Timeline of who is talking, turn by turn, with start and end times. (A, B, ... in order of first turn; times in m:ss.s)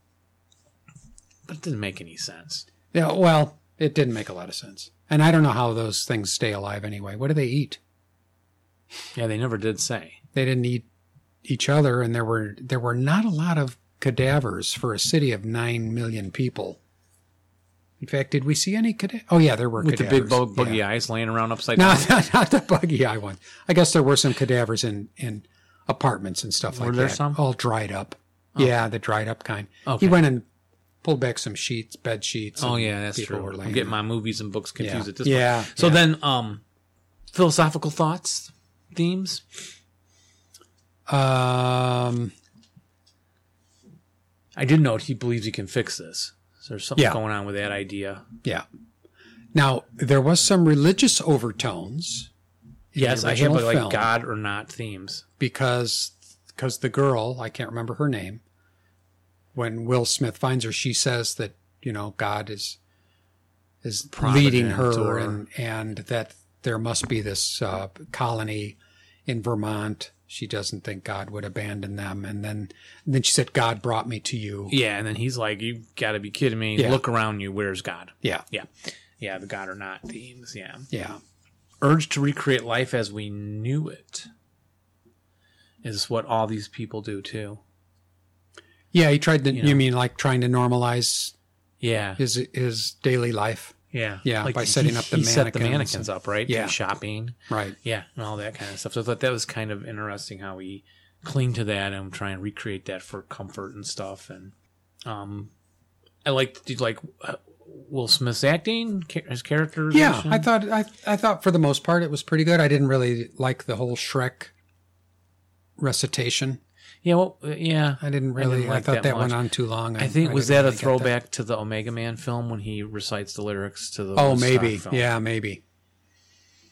0:01.5-0:02.6 A
0:02.9-0:07.8 B
0:09.2-0:10.2 A
0:10.3-0:10.9 B
0:11.4-0:16.8 B
0:18.0-0:20.8 B
0:19.8-0:22.1 A
0:21.8-0:30.5 B
0:26.7-0:27.4 A
0:29.8-0:30.2 A
0:31.0-0:34.0 B
0:32.6-0:36.6 A
0:34.8-0:36.0 B
0:37.3-0:39.6 A
0:41.1-0:42.3 B
0:44.6-0:48.2 A
0:49.5-0:52.3 B
0:52.9-0:54.1 B
0:53.0-0:55.2 A
0:55.4-0:58.4 B
0:59.5-1:02.8 B
1:03.8-1:14.7 B
1:04.1-1:05.4 A
1:14.7-1:20.9 A
1:16.8-1:17.0 B
1:20.9-1:21.2 B
1:21.8-1:24.3 A
1:25.8-1:27.6 A
1:28.9-1:31.3 B
1:29.5-1:29.8 A
1:31.8-1:32.2 A
1:32.2-1:36.8 B
1:33.9-1:44.5 A
1:37.5-1:37.8 B
1:45.0-1:45.5 A
1:46.2-1:50.5 A
1:49.9-1:54.5 B
1:55.8-1:56.6 B
1:57.0-1:59.4 A
1:58.0-2:01.1 B
2:00.0-2:05.1 A
2:04.2-2:05.6 B